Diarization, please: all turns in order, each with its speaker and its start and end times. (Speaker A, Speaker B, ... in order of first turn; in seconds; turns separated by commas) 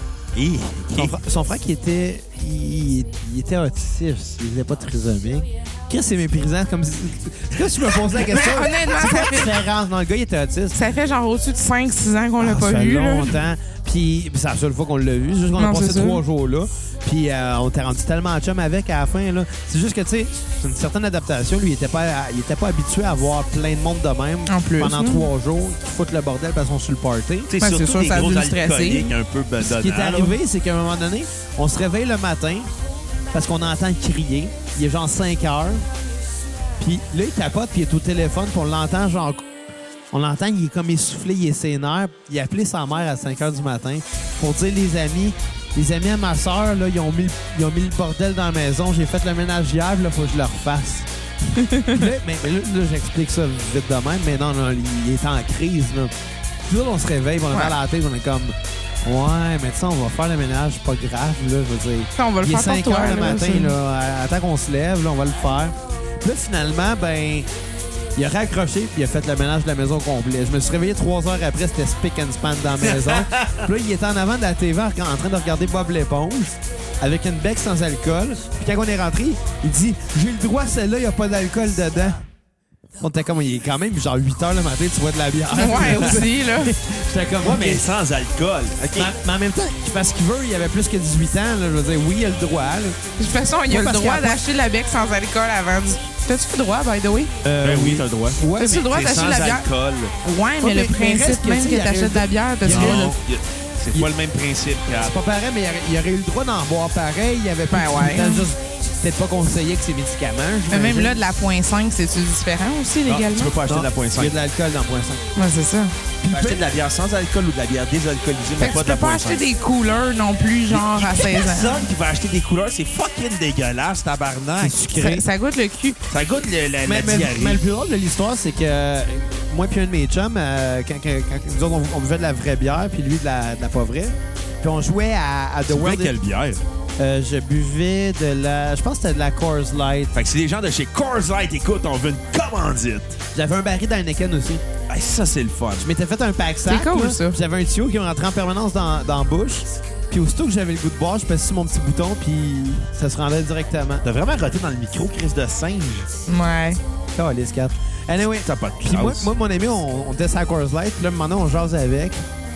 Speaker A: 0.3-1.1, Speaker B: 0.9-10.8, Speaker C: 8.1-9.7, Speaker C: 10.7-13.4, Speaker B: 12.4-27.5, Speaker C: 15.6-16.2, Speaker C: 24.5-25.3, Speaker A: 27.5-30.4, Speaker C: 27.6-29.1, Speaker B: 29.6-32.7, Speaker B: 33.3-35.9, Speaker B: 36.8-39.5, Speaker B: 40.1-51.1, Speaker C: 51.5-52.1, Speaker B: 51.9-56.1, Speaker B: 56.7-67.5, Speaker C: 62.2-63.7, Speaker B: 68.2-82.2, Speaker A: 72.8-73.7, Speaker B: 83.0-87.9, Speaker C: 85.5-86.7, Speaker A: 87.4-89.2, Speaker B: 89.0-93.0, Speaker C: 93.2-97.3, Speaker B: 93.7-94.4, Speaker B: 97.4-98.9, Speaker A: 97.6-100.1, Speaker C: 98.6-99.7, Speaker C: 100.2-103.1, Speaker B: 100.6-103.2, Speaker A: 102.6-105.2, Speaker B: 105.0-111.2, Speaker C: 107.7-108.5, Speaker C: 110.7-113.6, Speaker A: 113.1-114.3, Speaker B: 113.7-115.2, Speaker C: 115.4-116.0, Speaker A: 116.2-119.4, Speaker B: 116.3-116.6, Speaker C: 118.6-121.9, Speaker A: 120.7-124.8, Speaker B: 124.6-125.2, Speaker C: 124.9-126.0, Speaker A: 126.1-127.6, Speaker B: 126.9-136.2, Speaker A: 135.7-136.6, Speaker B: 137.0-140.1, Speaker A: 140.1-143.2, Speaker B: 143.3-144.6, Speaker A: 144.9-145.9, Speaker B: 145.8-154.1, Speaker C: 146.7-147.4, Speaker A: 154.0-156.1, Speaker C: 156.3-156.8, Speaker B: 157.2-162.2, Speaker A: 158.4-159.3